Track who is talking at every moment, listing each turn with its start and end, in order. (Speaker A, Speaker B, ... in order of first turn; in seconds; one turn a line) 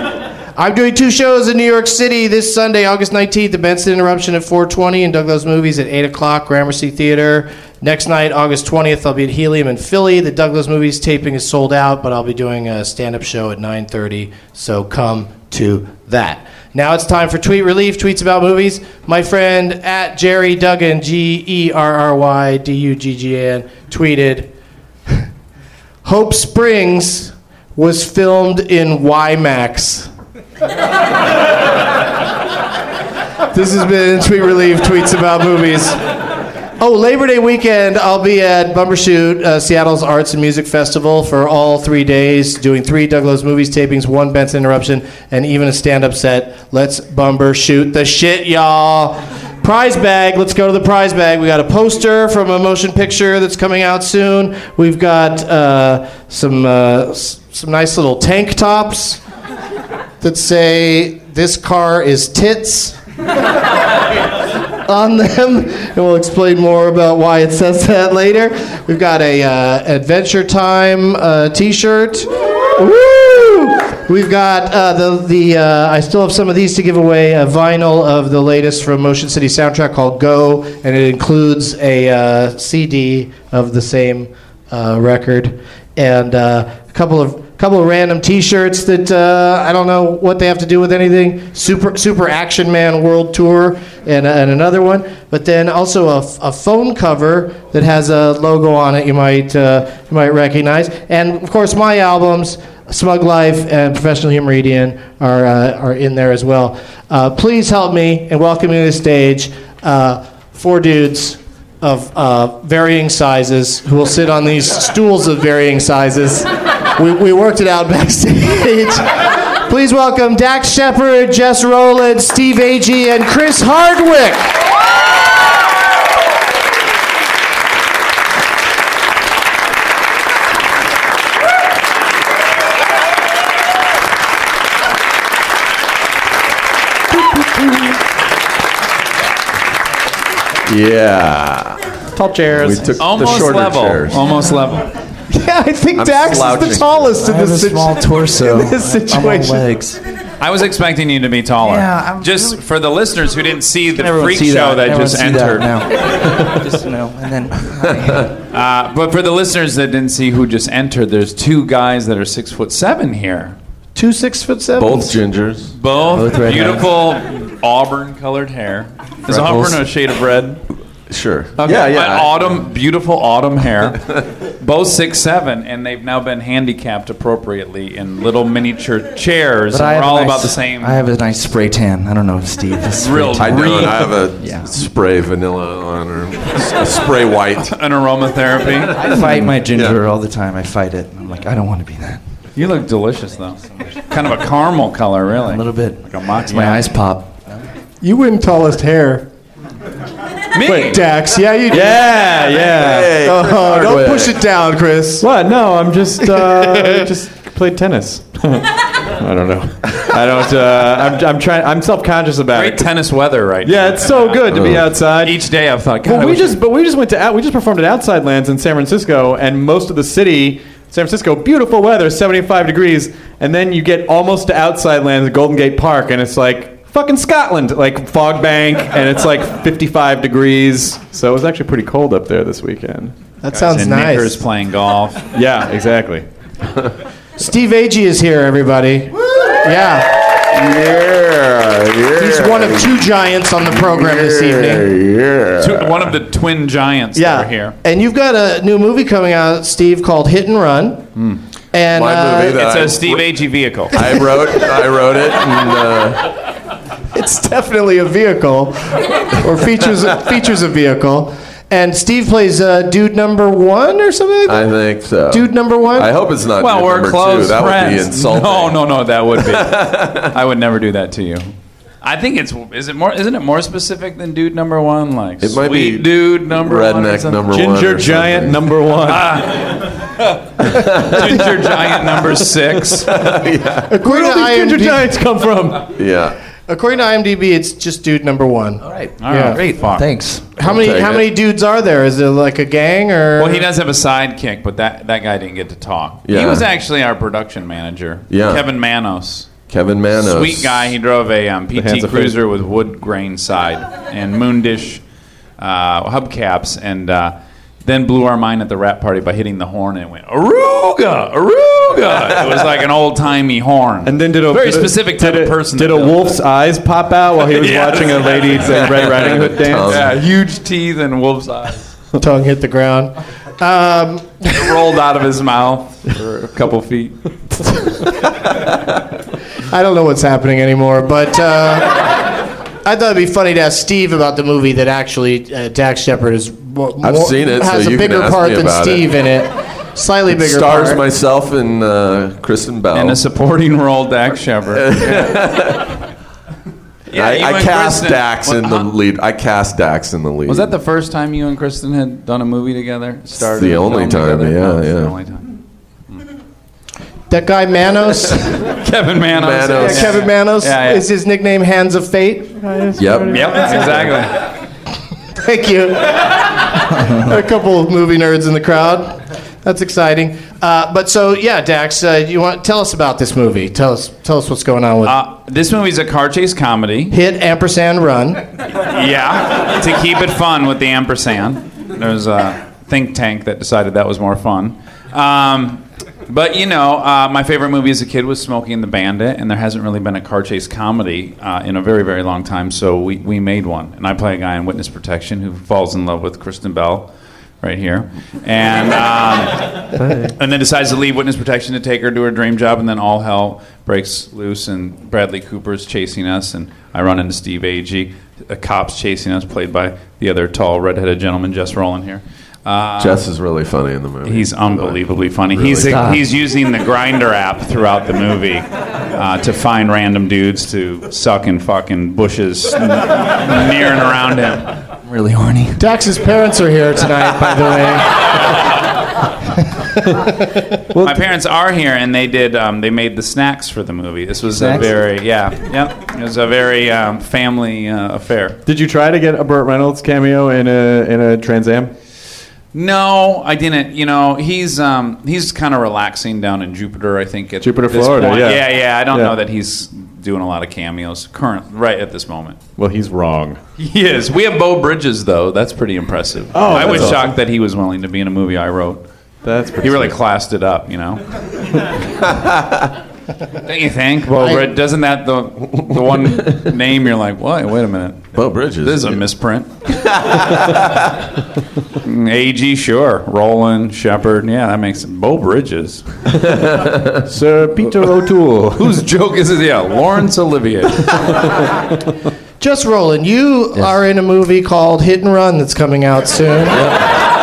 Speaker A: 0.6-24.5
Speaker A: 26.0-30.1
Speaker A: 33.5-36.0
Speaker A: 36.8-59.2
Speaker A: 60.2-63.0
Speaker A: 64.8-124.6
Speaker B: 140.7-141.8
Speaker C: 142.2-142.9
Speaker B: 142.5-144.3
Speaker D: 143.0-144.9
Speaker A: 145.3-149.6
Speaker B: 146.0-147.1
Speaker E: 147.2-150.0
Speaker D: 150.4-155.7
Speaker E: 151.6-152.6
Speaker E: 153.9-158.3
Speaker D: 158.5-163.6
Speaker A: 163.9-165.2
Speaker B: 164.8-165.8
Speaker D: 165.7-170.6
Speaker E: 166.1-166.9
Speaker E: 169.3-169.8
Speaker B: 171.1-172.4
Speaker E: 171.6-171.9
Speaker D: 171.6-174.1
Speaker D: 174.6-181.1
Speaker E: 179.7-184.7
Speaker D: 183.0-184.1
Speaker B: 183.4-187.7
Speaker D: 187.6-189.2
Speaker E: 189.0-192.2
Speaker B: 189.1-190.0
Speaker D: 192.6-196.9
Speaker E: 195.4-197.6
Speaker A: 198.0-199.3
Speaker D: 200.5-201.0
Speaker A: 200.7-202.2
Speaker C: 201.7-203.2
Speaker B: 202.5-204.4
Speaker A: 203.2-205.3
Speaker C: 205.2-212.9
Speaker A: 206.2-207.1
Speaker D: 212.5-216.6
Speaker C: 213.6-215.4
Speaker B: 214.5-214.9
Speaker C: 216.0-233.1
Speaker A: 233.4-234.4
Speaker D: 233.7-235.3
Speaker C: 235.3-236.3
Speaker A: 237.4-240.3
Speaker B: 240.5-242.9
Speaker A: 242.2-244.9
Speaker B: 243.7-246.0
Speaker D: 245.6-247.8
Speaker A: 247.2-251.1
Speaker A: 251.7-252.7
Speaker B: 251.9-253.3
Speaker D: 252.6-253.9
Speaker B: 253.9-256.2
Speaker A: 257.1-264.7
Speaker B: 264.5-268.8
Speaker A: 265.3-266.1
Speaker D: 266.6-271.5
Speaker B: 269.4-270.3
Speaker D: 272.0-277.5
Speaker B: 275.4-278.6
Speaker C: 277.5-279.4
Speaker D: 279.1-283.1
Speaker B: 280.7-281.3
Speaker B: 283.1-283.9
Speaker A: 283.9-285.2
Speaker C: 284.0-285.9
Speaker B: 285.9-286.4
Speaker A: 286.7-289.6
Speaker E: 288.8-289.1
Speaker D: 289.2-290.1
Speaker E: 289.8-290.5
Speaker A: 290.6-293.7
Speaker B: 290.6-291.3
Speaker D: 293.4-299.5
Speaker B: 296.3-296.7
Speaker B: 298.3-298.6
Speaker B: 299.7-300.8
Speaker D: 300.2-305.0
Speaker C: 301.7-302.4
Speaker D: 305.6-316.4
Speaker C: 314.1-319.9
Speaker D: 317.4-321.9
Speaker B: 318.8-320.1
Speaker A: 322.2-324.9
Speaker D: 324.5-327.2
Speaker A: 329.7-332.3
Speaker A: 332.9-341.0
Speaker B: 337.0-339.1
Speaker B: 340.3-343.2
Speaker D: 342.9-345.4
Speaker B: 344.8-346.0
Speaker D: 347.1-348.9
Speaker B: 347.1-350.7
Speaker D: 350.5-355.6
Speaker B: 353.5-355.1
Speaker A: 357.3-358.7
Speaker D: 358.7-361.1
Speaker B: 359.3-360.2
Speaker A: 359.8-362.7
Speaker C: 362.6-364.1
Speaker B: 363.0-363.5
Speaker D: 363.3-364.5
Speaker A: 365.4-375.2
Speaker D: 375.0-377.2
Speaker A: 377.1-378.4
Speaker D: 378.7-397.1
Speaker D: 397.6-413.2
Speaker B: 413.0-416.0
Speaker D: 414.2-424.8
Speaker E: 415.9-416.2
Speaker E: 425.1-425.8
Speaker A: 425.8-428.6
Speaker A: 429.6-430.6
Speaker C: 430.9-431.2
Speaker D: 431.0-438.6
Speaker E: 434.5-434.9
Speaker C: 438.6-441.9
Speaker D: 442.7-452.6
Speaker C: 447.6-449.4
Speaker C: 452.8-453.6
Speaker D: 453.8-459.0
Speaker C: 456.5-457.4
Speaker C: 459.4-460.2
Speaker D: 459.8-461.8
Speaker D: 463.6-469.9
Speaker B: 468.3-469.2
Speaker B: 470.3-470.8
Speaker D: 472.0-476.1
Speaker B: 476.7-477.1
Speaker C: 477.3-479.0
Speaker D: 478.8-481.2
Speaker A: 482.6-486.9
Speaker E: 486.7-487.1